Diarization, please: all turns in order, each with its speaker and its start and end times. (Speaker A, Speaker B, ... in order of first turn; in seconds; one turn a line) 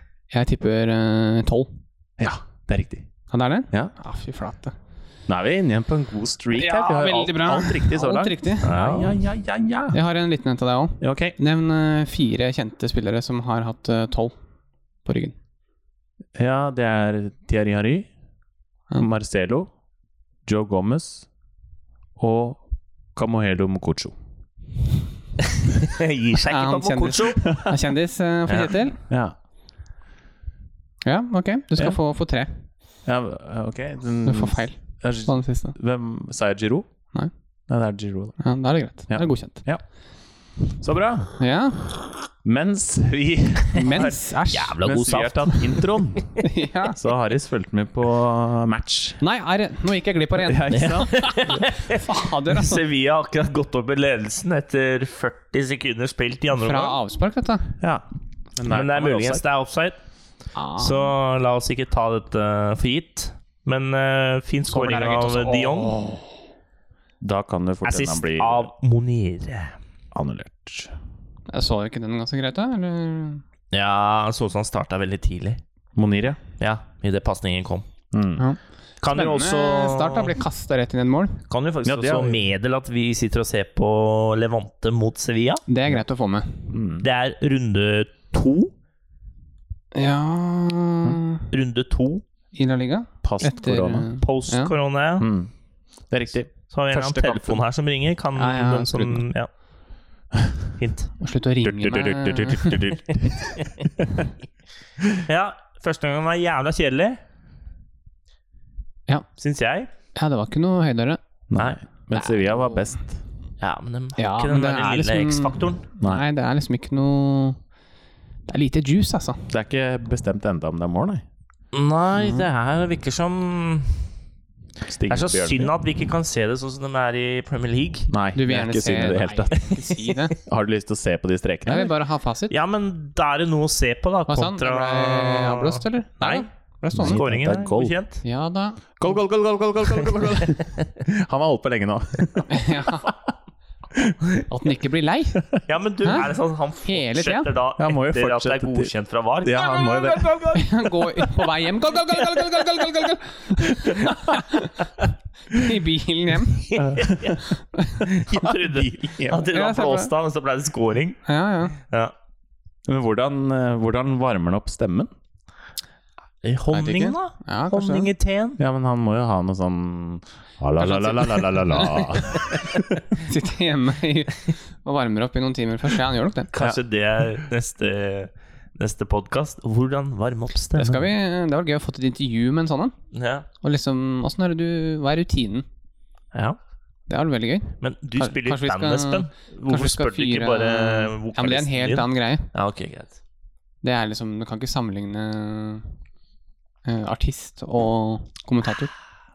Speaker A: 0.3-1.7
Speaker B: 2.2-3.1
Speaker A: 3.3-4.8
Speaker B: 5.3-10.0
Speaker A: 6.5-8.8
Speaker C: 8.6-9.2
Speaker A: 9.9-14.3
Speaker B: 11.0-11.3
Speaker A: 15.1-15.3
Speaker B: 16.4-18.1
Speaker B: 19.0-19.7
Speaker B: 20.4-21.3
Speaker B: 22.2-22.6
Speaker B: 23.1-24.1
Speaker C: 25.6-27.4
Speaker A: 26.5-29.0
Speaker B: 27.5-27.7
Speaker B: 29.1-29.4
Speaker A: 31.0-32.6
Speaker B: 33.1-36.9
Speaker A: 34.2-35.8
Speaker B: 37.7-38.4
Speaker A: 38.4-39.6
Speaker B: 39.1-39.8
Speaker B: 40.8-41.4
Speaker A: 41.4-42.0
Speaker B: 42.4-44.2
Speaker A: 43.8-44.8
Speaker C: 43.9-46.0
Speaker B: 44.8-49.2
Speaker A: 46.4-47.0
Speaker A: 49.2-52.8
Speaker B: 50.4-51.3
Speaker C: 50.7-57.0
Speaker A: 56.6-57.8
Speaker B: 57.8-58.0
Speaker B: 58.6-59.4
Speaker C: 58.7-60.0
Speaker A: 60.5-61.1
Speaker C: 60.8-66.0
Speaker A: 64.7-66.2
Speaker B: 67.2-68.7
Speaker C: 67.8-69.8
Speaker B: 70.1-70.9
Speaker A: 71.5-73.4
Speaker C: 73.7-75.6
Speaker B: 76.0-76.4
Speaker C: 76.6-77.9
Speaker B: 78.1-78.4
Speaker A: 78.4-81.4
Speaker C: 79.0-80.3
Speaker C: 81.5-85.6
Speaker B: 81.8-82.4
Speaker A: 85.7-86.7
Speaker B: 86.7-87.1
Speaker C: 87.0-88.7
Speaker A: 89.9-91.5
Speaker C: 91.5-92.2
Speaker A: 92.5-94.8
Speaker B: 93.2-94.1
Speaker C: 94.2-95.3
Speaker B: 95.2-95.5
Speaker B: 96.1-97.6
Speaker C: 96.7-99.5
Speaker A: 98.3-99.2
Speaker C: 100.8-101.1
Speaker A: 101.2-102.8
Speaker B: 101.6-104.3
Speaker C: 105.2-107.2
Speaker C: 109.4-109.9
Speaker A: 110.2-111.2
Speaker B: 111.5-113.2
Speaker C: 111.6-112.8
Speaker C: 113.6-115.8
Speaker A: 114.2-117.6
Speaker A: 118.5-119.5
Speaker B: 119.5-121.2
Speaker C: 121.7-124.1
Speaker A: 122.2-122.5
Speaker B: 124.9-125.7
Speaker C: 125.1-128.1
Speaker B: 128.1-129.8
Speaker A: 128.3-130.3
Speaker B: 130.4-131.9
Speaker A: 131.7-132.6
Speaker C: 132.5-136.5
Speaker A: 134.3-137.2
Speaker B: 136.9-138.0
Speaker C: 137.0-138.2
Speaker A: 138.2-139.0
Speaker B: 139.0-143.2
Speaker A: 142.5-143.1
Speaker B: 143.9-144.3
Speaker A: 144.5-146.3
Speaker C: 145.7-151.2
Speaker A: 146.8-147.5
Speaker B: 147.8-148.9
Speaker B: 149.4-150.6
Speaker A: 150.5-154.8
Speaker B: 153.8-154.2
Speaker A: 155.5-156.8
Speaker C: 156.6-157.4
Speaker B: 156.8-157.4
Speaker A: 157.7-158.1
Speaker C: 158.0-161.2
Speaker B: 158.3-159.5
Speaker A: 159.5-160.1
Speaker A: 161.3-161.8
Speaker B: 162.9-165.1
Speaker C: 166.4-168.6
Speaker A: 166.7-168.1
Speaker B: 168.6-173.0
Speaker C: 170.8-171.9
Speaker A: 171.7-172.1
Speaker A: 173.2-176.5
Speaker C: 176.5-181.0
Speaker A: 180.8-182.9
Speaker C: 183.1-183.5
Speaker A: 183.6-185.7
Speaker C: 186.3-186.6
Speaker A: 187.1-192.5
Speaker C: 187.8-193.2
Speaker A: 193.8-195.9
Speaker A: 196.8-198.9